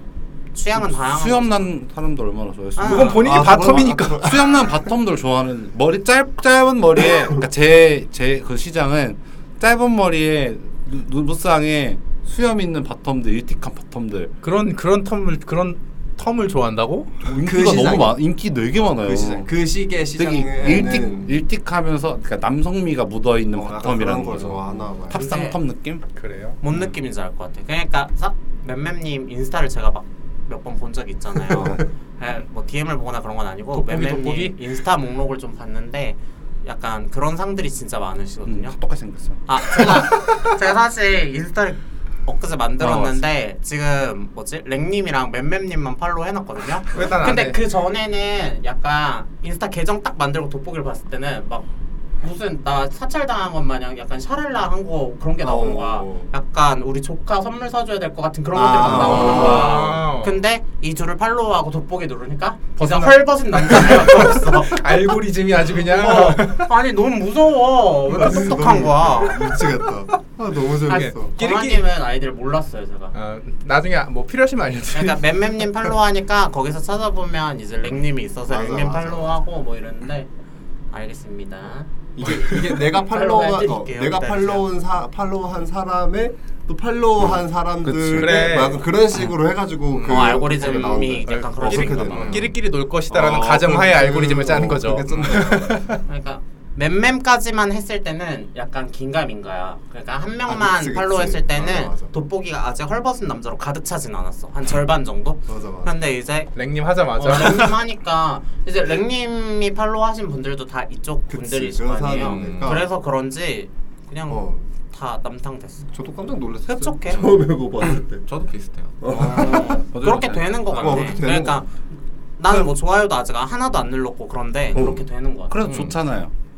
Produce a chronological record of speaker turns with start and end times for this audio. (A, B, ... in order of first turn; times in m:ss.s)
0:00.5-0:01.7 A
0:00.8-0:14.3 B
0:02.8-0:03.3 A
0:02.8-0:04.3 C
0:03.2-0:04.6 D
0:14.4-0:17.2 C
0:17.2-0:19.5 B
0:17.4-0:18.2 D
0:19.0-0:21.4 D
0:20.2-0:26.0 B
0:23.5-0:25.2 D
0:25.1-0:25.6 A
0:26.2-0:26.6 C
0:26.6-0:38.8 A
0:33.7-0:34.6 C
0:38.5-0:39.9 B
0:39.5-0:51.7 A
0:42.8-0:43.2 B
0:46.9-0:47.6 C
0:52.2-1:04.8 A
0:55.4-0:56.3 D
0:58.5-1:00.0 D
0:58.8-0:59.6 B
0:58.9-1:00.4 C
1:02.8-1:06.7 C
1:05.8-1:09.6 A
1:08.1-1:11.3 D
1:10.9-1:11.9 C
1:10.9-1:13.2 A
1:13.1-1:15.3 C
1:14.9-1:20.3 A
1:18.5-1:19.4 D
1:20.9-1:24.7 A
1:22.2-1:32.5 D
1:27.8-1:28.6 B
1:28.1-1:28.8 C
1:30.0-1:32.4 A
1:30.6-1:36.0 C
1:33.1-1:35.9 D
1:36.1-1:46.5 A
1:40.5-1:42.1 D
1:45.5-1:45.9 D
1:46.6-1:47.8 C
1:47.1-1:55.9 A
1:51.3-1:52.9 D
1:52.1-1:52.8 E
1:54.3-1:54.6 D
1:55.9-1:58.2 D
1:56.7-1:57.2 A
1:58.2-1:59.0 E
1:59.0-1:59.8 D
1:59.1-2:01.7 A
1:59.4-2:01.0 B
2:00.8-2:01.6 D
2:02.4-2:05.7 A
2:04.7-2:05.1 D
2:05.5-2:06.3 B
2:05.6-2:06.0 E